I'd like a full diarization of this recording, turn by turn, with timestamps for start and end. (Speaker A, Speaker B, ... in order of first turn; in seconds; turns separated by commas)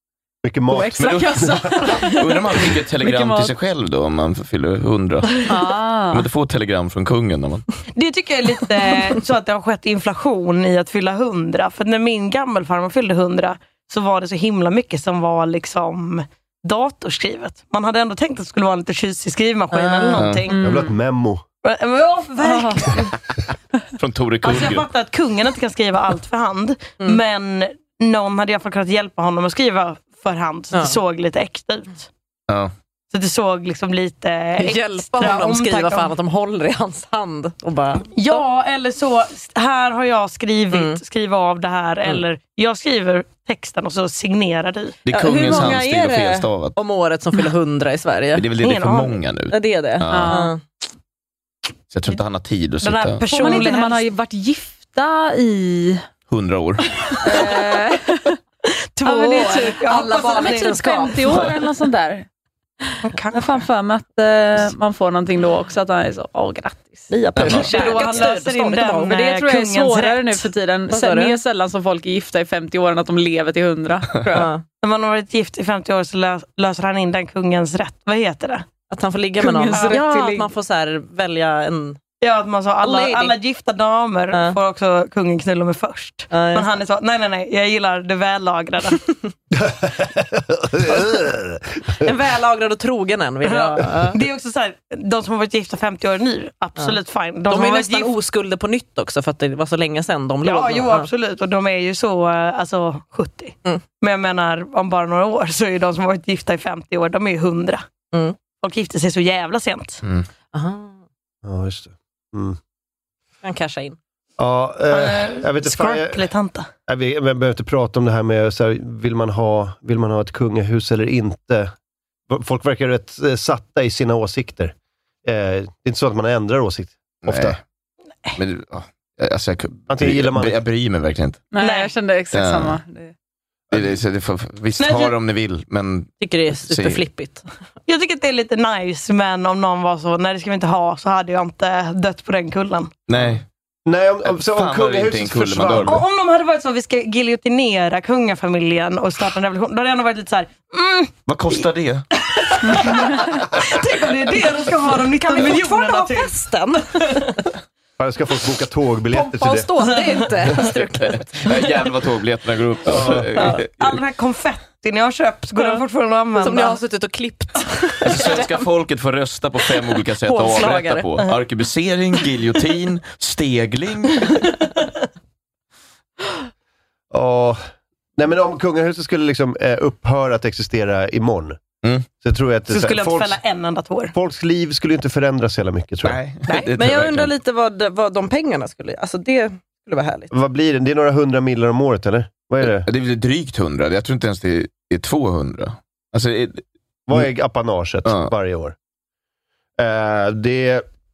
Speaker A: 0.4-1.9, Speaker B: 0.7-3.5, Speaker C: 1.0-5.5, Speaker B: 5.5-6.3, Speaker C: 6.1-7.6, Speaker D: 7.9-20.6, Speaker E: 19.7-20.2, Speaker C: 20.1-20.4, Speaker B: 20.5-20.9, Speaker A: 20.6-21.4, Speaker D: 21.6-23.1, Speaker B: 22.4-22.9, Speaker C: 24.0-24.9, Speaker D: 24.4-32.1, Speaker E: 30.7-31.0, Speaker D: 33.1-36.1, Speaker E: 34.6-38.4, Speaker D: 38.1-45.0, Speaker E: 40.7-41.0, Speaker C: 45.0-46.8, Speaker E: 45.1-48.5, Speaker C: 48.3-50.4, Speaker D: 48.6-49.2, Speaker E: 49.5-50.6, Speaker B: 50.1-50.5, Speaker C: 51.9-53.2, Speaker D: 52.8-54.1, Speaker B: 53.3-56.0, Speaker C: 56.3-56.9, Speaker B: 57.1-58.4, Speaker D: 59.0-61.5, Speaker B: 59.0-62.2, Speaker E: 59.9-61.3, Speaker B: 62.9-68.4, Speaker D: 63.0-63.6, Speaker E: 67.1-69.2, Speaker C: 67.4-67.7, Speaker D: 67.5-70.4, Speaker B: 69.0-74.5, Speaker E: 70.9-71.4, Speaker E: 74.3-74.6, Speaker D: 74.8-78.7, Speaker E: 78.9-82.0, Speaker B: 79.4-80.5, Speaker D: 79.7-80.0, Speaker D: 82.2-89.0, Speaker E: 82.8-83.3, Speaker E: 84.3-84.6, Speaker E: 86.3-86.7, Speaker A: 89.5-92.1, Speaker E: 92.0-94.2, Speaker D: 93.4-98.1, Speaker E: 97.5-101.1, Speaker D: 100.4-107.8, Speaker D: 108.6-110.0, Speaker E: 110.5-111.0, Speaker A: 111.4-112.6, Speaker E: 113.4-114.0, Speaker A: 114.4-116.3, Speaker D: 114.9-116.7, Speaker A: 116.9-121.7, Speaker A: 122.3-127.6, Speaker C: 127.2-127.6, Speaker C: 128.4-131.4, Speaker A: 129.9-130.6, Speaker B: 131.5-133.1, Speaker D: 131.6-131.9, Speaker C: 132.3-132.8, Speaker C: 133.7-137.0, Speaker D: 134.8-135.1, Speaker E: 136.2-137.5, Speaker D: 137.9-142.9, Speaker C: 143.1-143.4, Speaker A: 143.8-146.0, Speaker C: 144.2-146.0, Speaker D: 145.8-151.1, Speaker C: 151.2-152.1, Speaker D: 152.2-156.3, Speaker E: 155.2-157.3, Speaker D: 156.9-157.3, Speaker A: 158.0-159.7, Speaker E: 159.1-161.5, Speaker C: 161.0-163.9, Speaker A: 162.8-163.3, Speaker D: 163.7-166.8, Speaker E: 166.3-168.5, Speaker C: 168.0-174.4, Speaker E: 170.2-171.1, Speaker D: 174.4-174.9, Speaker A: 177.1-177.6, Speaker A: 178.2-181.6, Speaker A: 182.2-183.4, Speaker D: 182.7-184.1, Speaker A: 184.1-186.2, Speaker C: 186.0-187.3, Speaker E: 186.6-190.3, Speaker A: 190.3-192.9, Speaker C: 192.6-197.2, Speaker A: 197.1-198.8, Speaker C: 198.1-198.3, Speaker A: 199.8-200.8